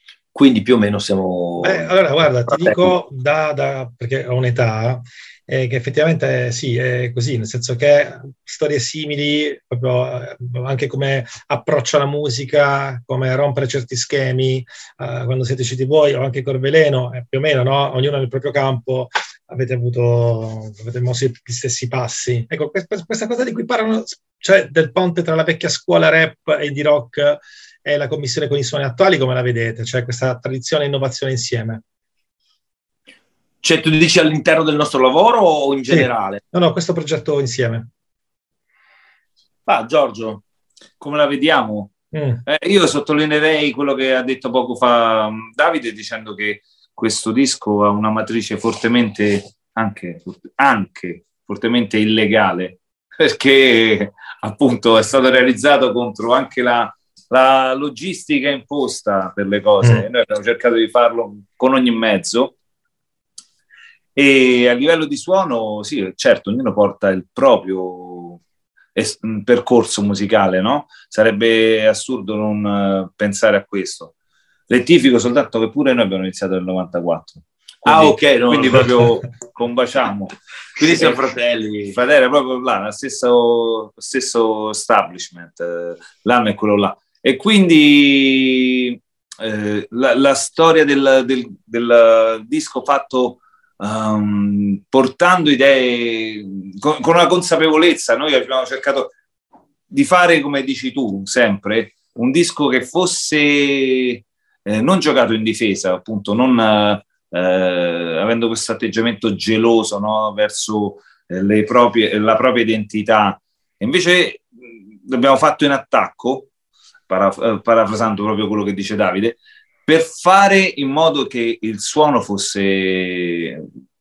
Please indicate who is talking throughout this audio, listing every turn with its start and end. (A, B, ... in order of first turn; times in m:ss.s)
0:00.3-0:01.9 A
0:01.6-0:31.8 B
0:02.5-0:02.9 A
0:33.6-0:36.4 A
0:35.9-0:37.9 B
0:39.6-0:40.4 A
0:41.0-0:41.9 C
0:42.1-0:42.4 B
0:42.4-1:02.5 C
1:04.1-1:08.4 C
1:08.9-1:14.1 C
1:14.7-1:21.2 C
1:17.8-1:18.9 A
1:20.8-1:21.9 A
1:21.9-1:39.1 C
1:39.9-1:54.5 C
1:55.0-1:56.5 C
1:57.1-2:03.6 C